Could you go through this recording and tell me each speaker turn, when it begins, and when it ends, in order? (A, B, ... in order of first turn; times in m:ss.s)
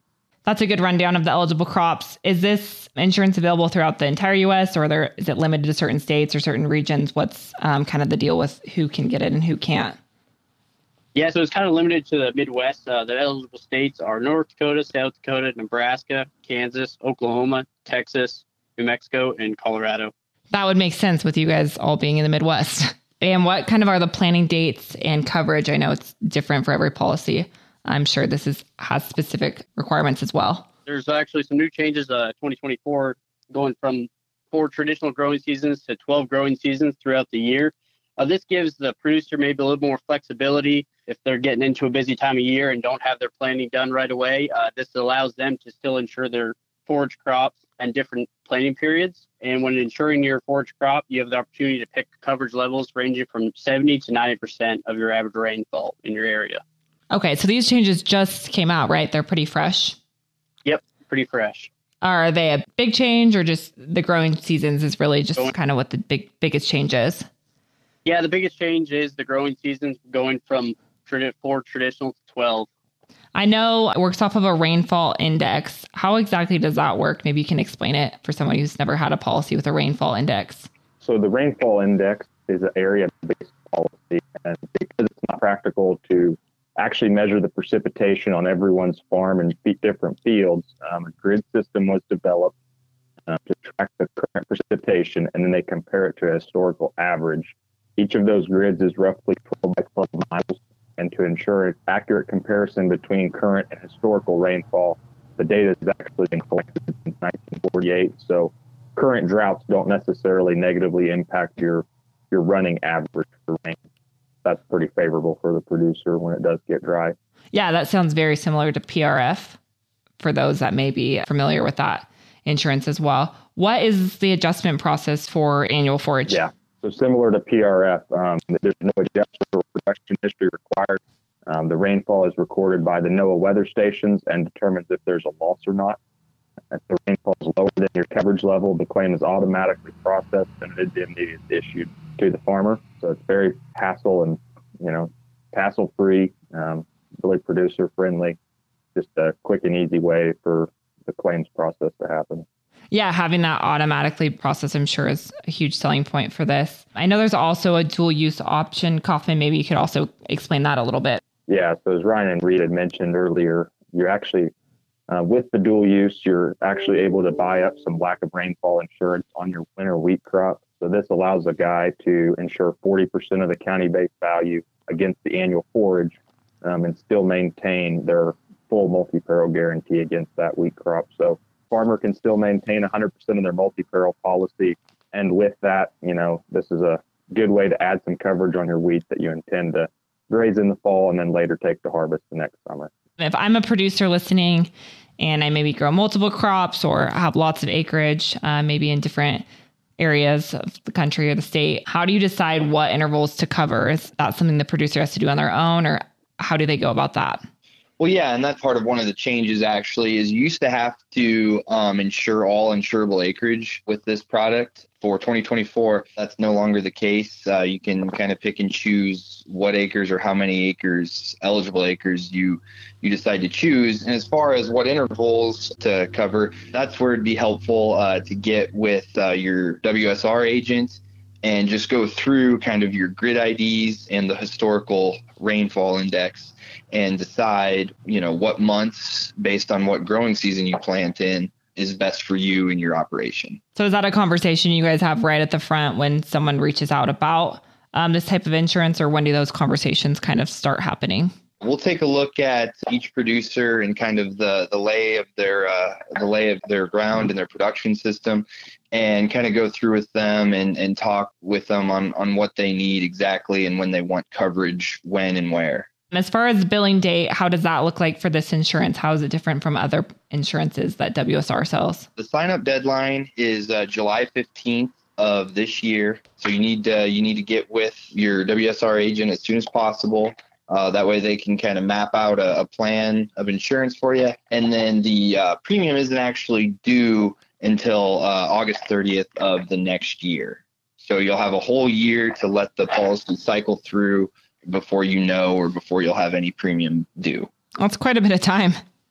0:00.4-0:10.0 A
0:11.1-0:20.1 B
0:20.5-0:30.7 A
0:30.9-0:56.6 B
0:57.1-1:00.0 A
1:00.6-1:01.7 B
1:02.0-1:07.2 A
1:08.0-1:12.7 B
1:13.3-1:20.7 A
1:21.0-1:32.5 C
1:33.3-1:53.8 C
1:54.4-1:57.2 C
1:57.5-1:59.6 A
2:00.2-2:06.4 A
2:06.3-2:16.0 C
2:16.7-2:28.4 C
2:28.9-2:32.4 C
2:32.9-2:41.2 A
2:41.5-2:44.5 C
2:45.1-3:12.9 C
3:13.2-3:19.4 A
3:20.0-3:27.4 A
3:28.0-4:03.6 D
4:03.7-4:11.3 A
4:11.6-4:25.9 D
4:26.1-4:32.1 A
4:32.2-4:57.5 D
4:57.8-4:58.8 A